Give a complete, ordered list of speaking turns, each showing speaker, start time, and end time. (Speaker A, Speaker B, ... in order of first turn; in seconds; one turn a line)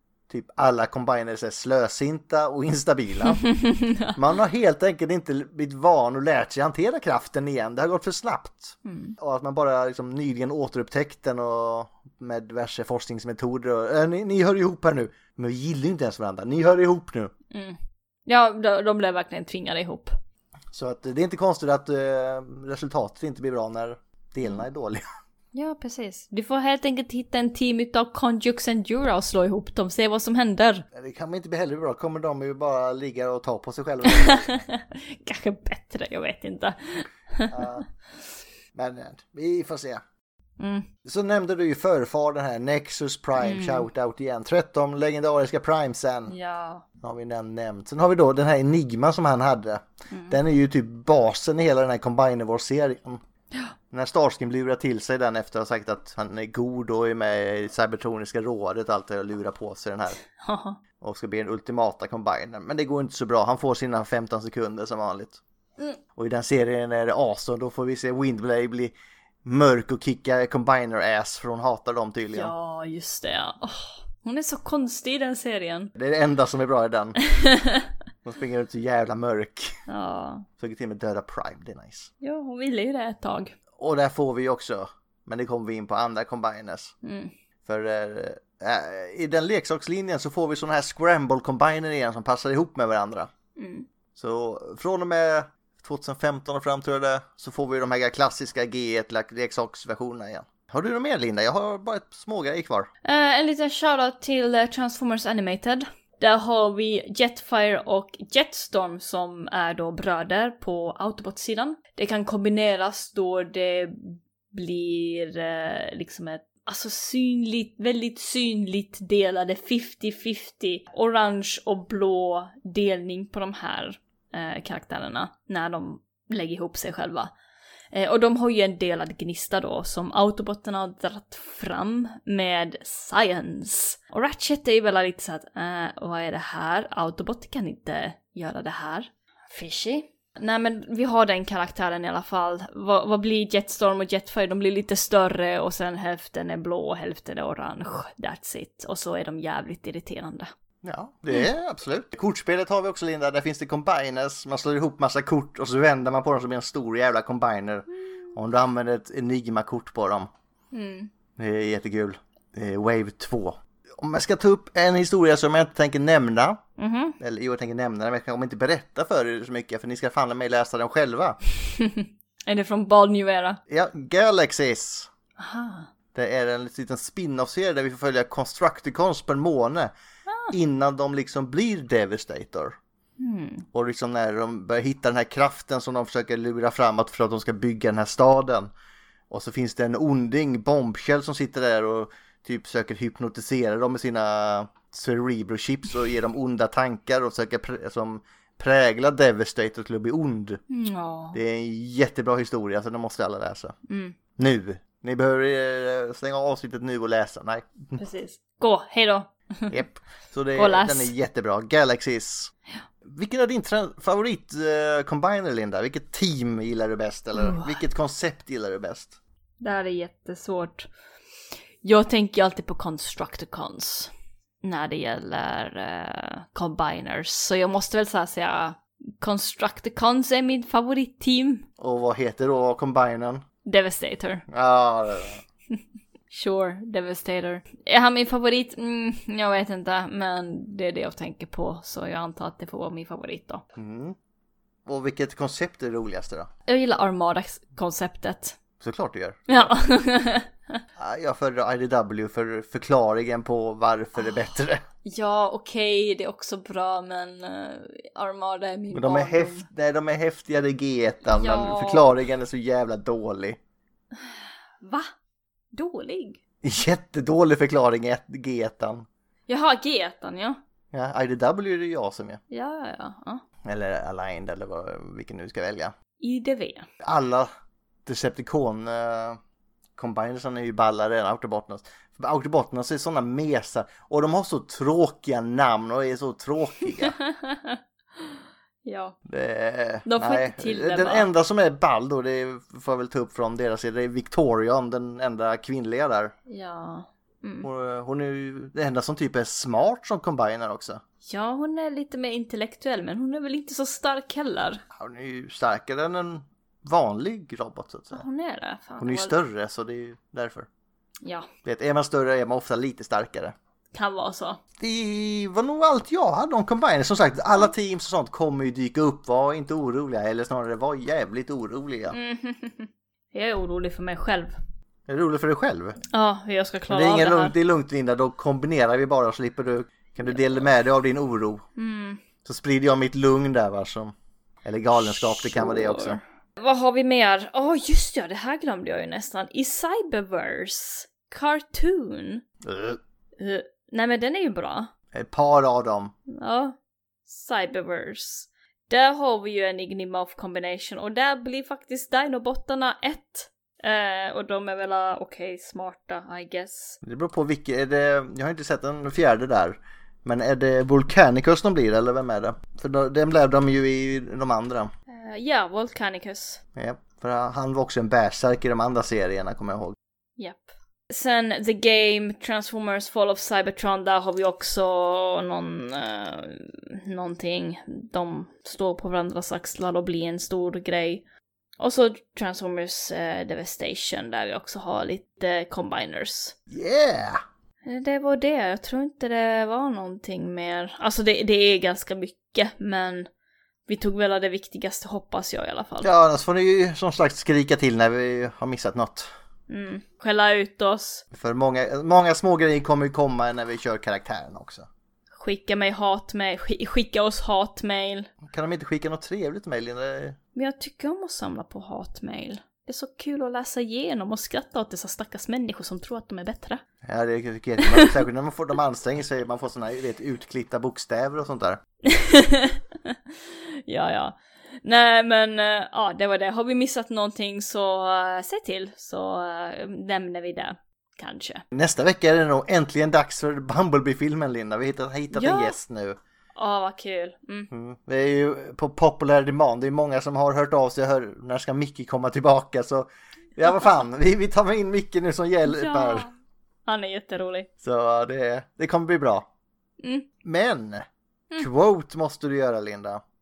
Speaker A: 0.3-3.5
Speaker B: 3.3-4.2
Speaker A: 4.2-17.3
Speaker B: 8.8-9.2
Speaker B: 17.5-20.1
Speaker A: 20.7-25.1
Speaker B: 25.5-30.9
Speaker A: 30.9-34.6
Speaker B: 34.0-37.8
Speaker A: 37.5-37.9
Speaker A: 38.7-40.0
Speaker B: 40.6-40.9
Speaker A: 41.0-46.4
Speaker B: 43.4-43.9
Speaker B: 46.3-46.9
Speaker A: 47.0-53.2
Speaker B: 50.1-50.4
Speaker A: 53.9-60.2
Speaker B: 60.4-60.8
Speaker A: 61.0-65.4
Speaker A: 66.2-72.5
Speaker B: 72.3-75.9
Speaker A: 76.0-77.2
Speaker B: 77.3-77.9
Speaker A: 78.2-79.8
Speaker B: 79.9-80.5
Speaker A: 80.6-82.1
Speaker B: 82.2-83.5
Speaker A: 83.8-86.9
Speaker B: 87.0-87.3
Speaker A: 87.7-93.3
Speaker B: 93.6-93.9
Speaker A: 94.2-102.9
Speaker B: 103.0-127.3
Speaker B: 127.9-150.5
Speaker A: 150.8-160.3
Speaker B: 160.7-161.1
Speaker A: 161.4-166.6
Speaker B: 166.8-167.2
Speaker A: 167.2-171.4
Speaker B: 171.8-173.6
Speaker A: 173.7-175.1
Speaker B: 175.4-175.9
Speaker A: 176.1-179.9
Speaker B: 180.3-180.5
Speaker A: 180.5-182.8
Speaker B: 183.2-183.7
Speaker A: 183.7-188.7
Speaker A: 189.3-200.6
Speaker B: 200.7-201.4
Speaker A: 201.3-203.8
Speaker B: 203.9-204.2
Speaker A: 204.4-208.0
Speaker B: 208.0-209.7
Speaker A: 209.7-212.5
Speaker B: 210.6-211.1
Speaker A: 213.0-219.2
Speaker B: 217.4-217.8
Speaker B: 219.6-220.9
Speaker B: 221.8-224.1
Speaker B: 224.6-231.7
Speaker A: 231.8-233.4
Speaker B: 233.7-234.4
Speaker A: 234.5-235.4
Speaker B: 236.3-243.6
Speaker A: 243.8-244.2
Speaker A: 244.9-246.5
Speaker B: 246.7-248.6
Speaker A: 248.8-249.7
Speaker B: 249.5-250.8
Speaker A: 251.0-254.8
Speaker B: 255.1-259.7
Speaker A: 258.9-263.6
Speaker B: 261.3-262.1
Speaker B: 264.2-265.1
Speaker B: 265.7-266.4
Speaker A: 266.6-269.1
Speaker B: 269.5-270.6
Speaker A: 270.9-272.4
Speaker B: 272.5-273.4
Speaker A: 273.6-275.9
Speaker B: 276.2-276.9
Speaker A: 277.0-277.5
Speaker A: 278.1-279.4
Speaker A: 280.0-287.2
Speaker B: 287.0-288.3
Speaker B: 288.9-289.2
Speaker A: 289.3-296.4
Speaker B: 290.1-291.3
Speaker B: 296.5-297.7
Speaker A: 297.6-301.0
Speaker B: 301.2-304.8
Speaker A: 304.9-308.2
Speaker B: 308.1-309.4
Speaker A: 309.0-310.7
Speaker B: 311.2-311.5
Speaker A: 311.6-313.6
Speaker B: 313.9-314.6
Speaker A: 314.8-322.2
Speaker B: 322.1-324.6
Speaker A: 325.1-326.0
Speaker B: 326.1-327.5
Speaker A: 326.9-331.7
Speaker B: 330.2-330.6
Speaker B: 331.8-332.2
Speaker A: 332.4-336.2
Speaker B: 335.1-342.4
Speaker A: 342.6-343.0
Speaker B: 343.4-344.9
Speaker A: 345.1-346.1
Speaker B: 346.3-346.8
Speaker B: 347.3-357.0
Speaker A: 357.0-364.9
Speaker B: 365.1-366.6
Speaker A: 366.8-370.0
Speaker B: 370.4-381.2
Speaker B: 381.8-386.6
Speaker A: 386.7-387.4
Speaker B: 387.9-393.3
Speaker B: 393.9-396.1
Speaker A: 396.0-399.3
Speaker B: 399.7-401.2
Speaker A: 401.3-404.9
Speaker B: 405.4-408.3
Speaker A: 408.4-410.4
Speaker B: 410.6-416.8
Speaker A: 417.0-421.8
Speaker B: 417.8-418.1
Speaker B: 422.1-423.2
Speaker B: 423.9-431.6
Speaker A: 431.7-436.2
Speaker B: 435.3-435.8
Speaker B: 436.6-437.7
Speaker A: 437.7-446.3
Speaker B: 445.6-446.3
Speaker B: 446.9-447.7
Speaker A: 447.8-449.5
Speaker A: 450.4-451.1
Speaker A: 451.6-453.2